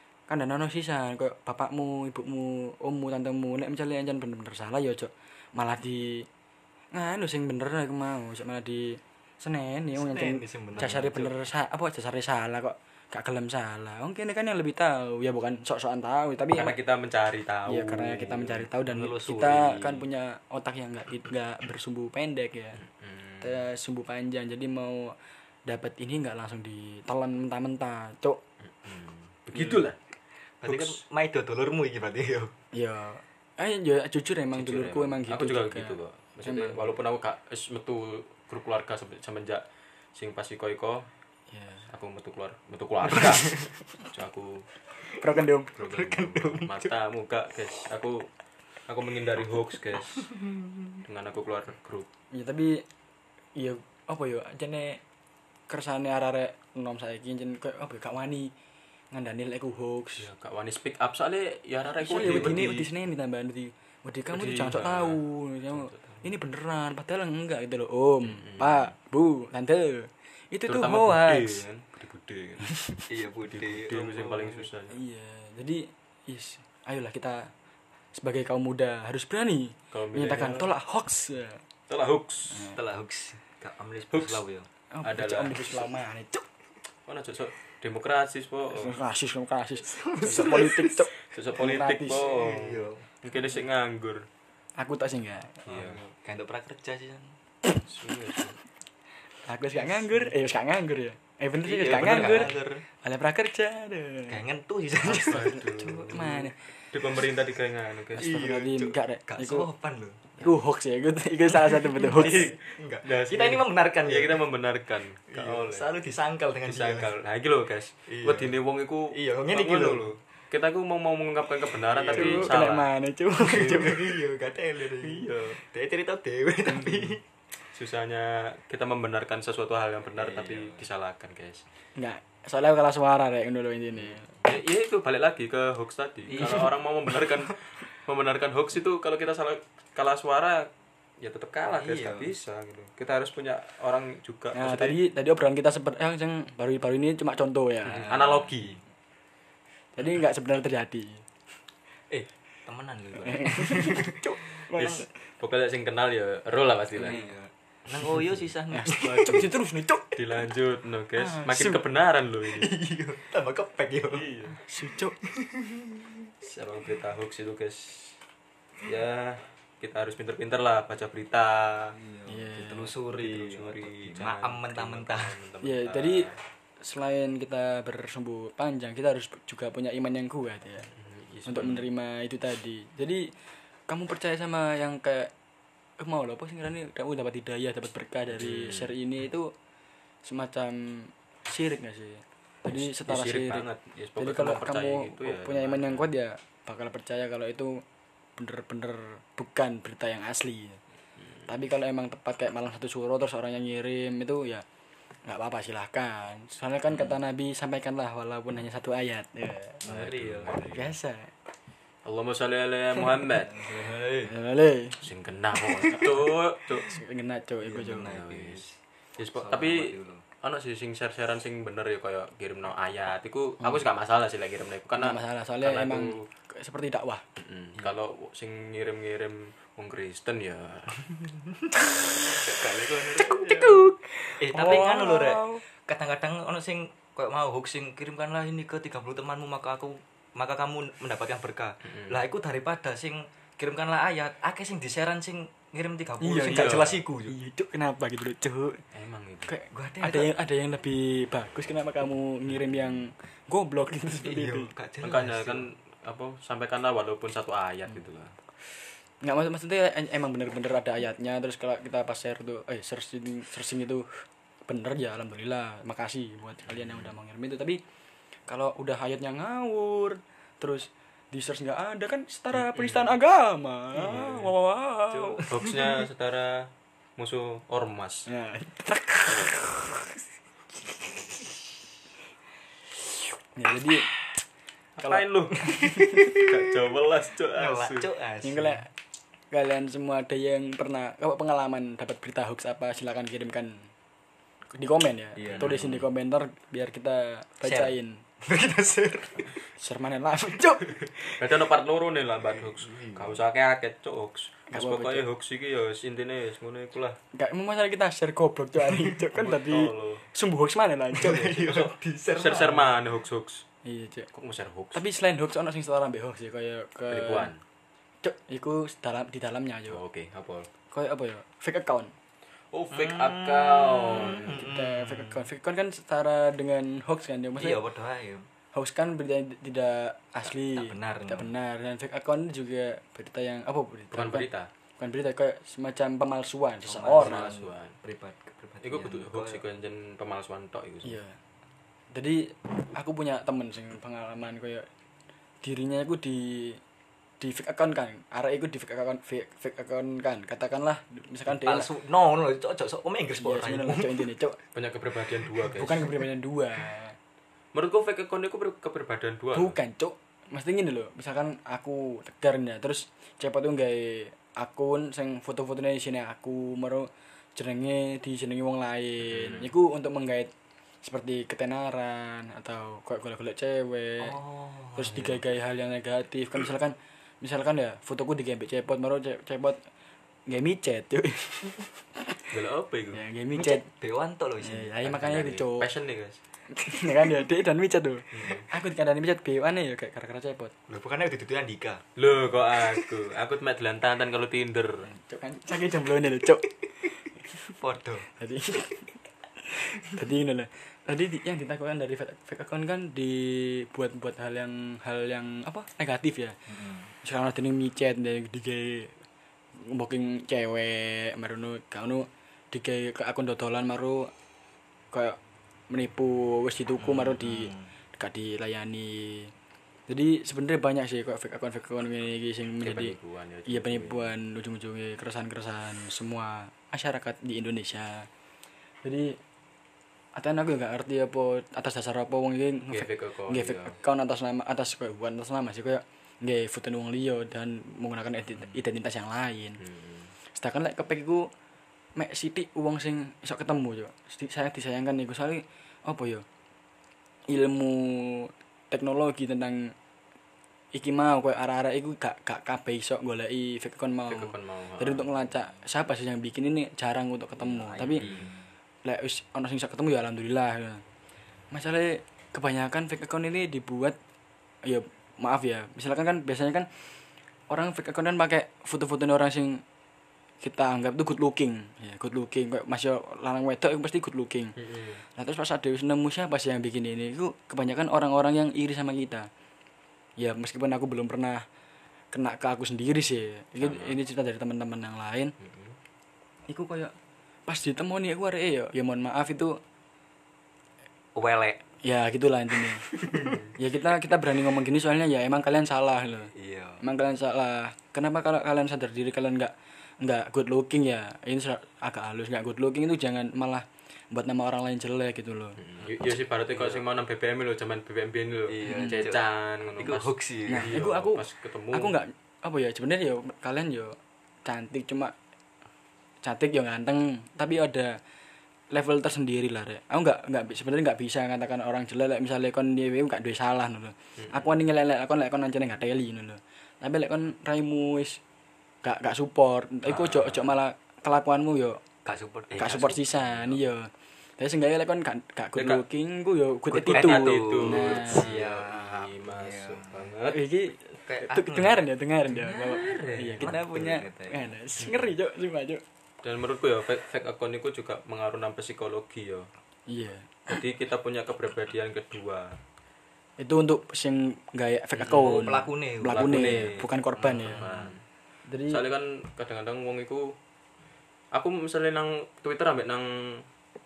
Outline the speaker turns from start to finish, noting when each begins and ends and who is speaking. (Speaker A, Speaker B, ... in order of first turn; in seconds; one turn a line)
Speaker A: 0.3-6.3
Speaker A: 6.9-16.8
Speaker B: 9.9-11.3
Speaker C: 16.6-18.7
Speaker A: 17.7-22.8
Speaker B: 18.8-20.1
Speaker C: 22.8-23.6
Speaker A: 23.4-25.1
Speaker A: 25.7-28.4
Speaker C: 28.7-30.0
Speaker A: 29.5-29.8
Speaker B: 30.6-32.5
Speaker C: 30.6-31.0
Speaker A: 32.7-36.9
Speaker C: 34.5-39.6
Speaker C: 40.1-41.1
Speaker A: 41.5-41.9
Speaker C: 41.9-44.7
Speaker B: 43.2-43.6
Speaker A: 45.1-45.7
Speaker C: 45.7-48.3
Speaker B: 45.8-46.9
Speaker C: 48.9-50.3
Speaker B: 50.2-50.9
Speaker C: 51.0-52.1
Speaker A: 52.3-52.8
Speaker A: 53.5-55.0
Speaker A: 55.7-58.5
Speaker A: 59.1-60.3
Speaker C: 60.2-62.9
Speaker A: 62.0-71.6
Speaker C: 64.3-65.2
Speaker C: 65.7-66.2
Speaker C: 68.2-68.9
Speaker C: 70.7-72.7
Speaker A: 72.7-73.0
Speaker B: 73.1-74.7
Speaker C: 73.5-75.0
Speaker A: 74.9-77.5
Speaker A: 78.1-81.6
Speaker C: 79.9-80.7
Speaker C: 81.9-82.8
Speaker A: 82.5-82.8
Speaker B: 82.7-84.7
Speaker C: 84.1-84.4
Speaker A: 84.9-86.4
Speaker C: 85.0-85.8
Speaker C: 87.1-89.0
Speaker A: 88.7-92.2
Speaker B: 89.9-91.0
Speaker C: 90.3-90.7
Speaker C: 91.2-94.3
Speaker B: 92.2-93.1
Speaker A: 94.8-95.6
Speaker C: 95.7-96.0
Speaker B: 95.7-97.3
Speaker C: 97.8-98.6
Speaker A: 99.5-104.3
Speaker B: 99.9-100.3
Speaker B: 101.6-102.8
Speaker C: 102.0-102.7
Speaker B: 104.3-106.4
Speaker C: 105.0-108.3
Speaker A: 105.1-106.6
Speaker A: 108.2-109.7
Speaker B: 108.2-110.4
Speaker A: 110.4-112.6
Speaker B: 111.7-114.5
Speaker C: 112.1-115.9
Speaker B: 115.3-117.1
Speaker C: 116.6-122.9
Speaker B: 118.1-118.6
Speaker B: 119.1-120.2
Speaker B: 121.8-122.6
Speaker A: 122.1-124.2
Speaker B: 123.4-127.2
Speaker C: 125.0-125.6
Speaker C: 126.6-127.2
Speaker C: 127.7-131.6
Speaker B: 130.1-130.9
Speaker A: 132.0-134.3
Speaker C: 134.4-140.7
Speaker B: 136.3-137.3
Speaker A: 136.4-136.6
Speaker C: 141.2-145.0
Speaker B: 141.6-142.3
Speaker A: 144.5-148.1
Speaker B: 147.9-148.8
Speaker C: 148.0-148.8
Speaker A: 150.0-151.2
Speaker B: 152.1-154.9
Speaker A: 153.2-155.1
Speaker C: 154.8-157.3
Speaker B: 156.9-159.5
Speaker A: 158.7-160.2
Speaker C: 159.0-159.5
Speaker C: 160.2-162.8
Speaker A: 161.2-161.8
Speaker B: 162.5-164.3
Speaker C: 164.1-164.6
Speaker A: 164.6-165.2
Speaker B: 165.3-166.0
Speaker C: 166.4-168.2
Speaker C: 168.8-171.9
Speaker B: 172.0-175.4
Speaker A: 172.3-172.9
Speaker C: 173.1-176.4
Speaker A: 175.6-176.3
Speaker A: 176.8-180.9
Speaker C: 181.0-181.9
Speaker A: 181.5-183.3
Speaker A: 183.9-185.3
Speaker A: 186.0-189.5
Speaker C: 188.3-188.9
Speaker A: 190.2-197.8
Speaker C: 192.7-196.1
Speaker A: 198.4-200.8
Speaker A: 201.5-204.7
Speaker A: 205.2-209.8
Speaker B: 209.8-210.8
Speaker C: 209.9-210.9
Speaker A: 210.7-211.3
Speaker C: 212.0-213.6
Speaker B: 213.3-214.3
Speaker A: 214.2-215.0
Speaker C: 215.0-216.9
Speaker A: 215.6-218.2
Speaker B: 217.6-218.8
Speaker C: 218.0-218.7
Speaker C: 219.2-226.2
Speaker B: 219.3-220.2
Speaker A: 225.0-227.2
Speaker C: 227.4-231.1
Speaker B: 231.2-231.7
Speaker B: 232.3-247.3
Speaker A: 233.2-235.6
Speaker C: 241.9-242.2
Speaker A: 246.2-248.8
Speaker C: 246.4-247.0
Speaker C: 248.9-249.5
Speaker A: 249.5-254.7
Speaker B: 249.7-250.3
Speaker B: 254.2-255.7
Speaker C: 255.0-258.4
Speaker A: 259.2-267.8
Speaker C: 266.6-267.1
Speaker A: 268.5-275.5
Speaker C: 272.6-273.2
Speaker C: 273.9-274.5
Speaker B: 275.1-275.9
Speaker C: 275.5-278.3
Speaker A: 278.3-280.2
Speaker A: 280.9-281.6
Speaker A: 283.5-284.1
Speaker C: 285.0-285.7
Speaker A: 285.0-286.4
Speaker B: 285.6-286.6
Speaker C: 286.3-288.1
Speaker B: 287.5-288.8
Speaker A: 288.4-288.9
Speaker A: 289.5-293.9
Speaker A: 294.7-298.2
Speaker B: 295.4-296.0
Speaker C: 295.5-296.0
Speaker B: 297.6-299.6
Speaker A: 299.8-301.4
Speaker C: 301.4-307.2
Speaker B: 302.6-303.4
Speaker A: 304.7-305.2
Speaker A: 307.3-311.7
Speaker B: 308.9-309.2
Speaker C: 309.3-310.2
Speaker B: 311.1-312.9
Speaker C: 311.2-313.6
Speaker A: 313.9-314.3
Speaker C: 314.3-315.0
Speaker A: 314.9-317.5
Speaker C: 317.1-317.6
Speaker A: 318.2-320.0
Speaker C: 319.9-320.7
Speaker A: 320.9-322.1
Speaker C: 322.7-324.7
Speaker B: 322.9-325.5
Speaker A: 324.2-327.8
Speaker B: 327.6-328.5
Speaker A: 328.7-334.5
Speaker B: 330.5-331.5
Speaker C: 334.1-334.7
Speaker A: 335.0-337.5
Speaker B: 336.9-339.6
Speaker C: 337.1-337.9
Speaker C: 338.8-341.2
Speaker A: 341.0-341.4
Speaker A: 342.1-344.9
Speaker A: 345.6-346.8
Speaker A: 347.4-351.9
Speaker B: 351.5-354.3
Speaker A: 353.4-354.6
Speaker C: 354.7-356.1
Speaker A: 355.7-357.2
Speaker C: 357.7-359.8
Speaker A: 359.5-370.5
Speaker C: 369.3-369.7
Speaker A: 371.0-374.4
Speaker B: 374.2-375.4
Speaker A: 375.0-379.8
Speaker A: 380.5-382.5
Speaker C: 382.5-383.2
Speaker A: 383.1-383.9
Speaker B: 383.5-385.4
Speaker A: 384.6-385.9
Speaker C: 385.1-386.4
Speaker A: 386.7-390.7
Speaker C: 388.3-388.6
Speaker B: 390.9-392.0
Speaker C: 392.2-395.1
Speaker A: 395.1-396.7
Speaker B: 397.5-398.3
Speaker A: 398.3-399.1
Speaker A: 399.6-406.6
Speaker B: 406.7-407.1
Speaker A: 407.2-409.2
Speaker A: 409.8-414.3
Speaker A: 415.1-415.4
Speaker A: 415.9-419.5
Speaker B: 417.0-417.9
Speaker A: 420.1-423.1
Speaker C: 422.8-424.3
Speaker A: 423.7-428.3
Speaker A: 429.0-429.4
Speaker A: 430.4-439.8
Speaker C: 432.9-434.0
Speaker C: 439.8-440.3
Speaker A: 440.5-441.5
Speaker A: 442.2-446.4
Speaker A: 447.5-449.9
Speaker A: 450.9-458.2
Speaker C: 454.3-455.5
Speaker B: 457.6-458.6
Speaker C: 458.2-458.5
Speaker A: 459.0-461.0
Speaker A: 461.7-464.2
Speaker A: 464.9-466.9
Speaker A: 467.7-469.8
Speaker A: 470.6-479.5
Speaker C: 474.8-475.2
Speaker A: 480.4-481.6
Speaker A: 482.3-485.5
Speaker C: 483.8-484.2
Speaker C: 485.6-486.0
Speaker A: 486.7-487.1
Speaker A: 487.7-489.8
Speaker B: 491.4-491.8
Speaker A: 492.0-493.2
Speaker B: 493.1-493.6
Speaker C: 493.3-493.7
Speaker A: 493.8-505.8
Speaker B: 496.5-497.0
Speaker C: 506.0-512.2
Speaker B: 506.7-507.0
Speaker B: 508.7-511.0
Speaker A: 508.9-509.1
Speaker A: 510.7-515.3
Speaker A: 516.4-518.2
Speaker A: 518.9-528.4
Speaker C: 524.4-524.7
Speaker A: 529.0-532.0
Speaker B: 530.1-530.7
Speaker B: 532.2-533.8
Speaker A: 532.8-538.5
Speaker C: 535.8-536.0
Speaker B: 536.9-540.3
Speaker C: 536.9-540.6
Speaker A: 540.5-546.0
Speaker B: 541.2-542.1
Speaker C: 542.5-543.8
Speaker B: 543.6-544.7
Speaker C: 545.0-545.3
Speaker C: 546.4-549.7
Speaker A: 550.1-550.8
Speaker C: 550.7-552.8
Speaker A: 553.6-557.9
Speaker B: 555.2-558.1
Speaker C: 556.4-557.0
Speaker C: 557.6-558.2
Speaker A: 558.7-559.0
Speaker C: 558.9-560.5
Speaker C: 561.5-563.7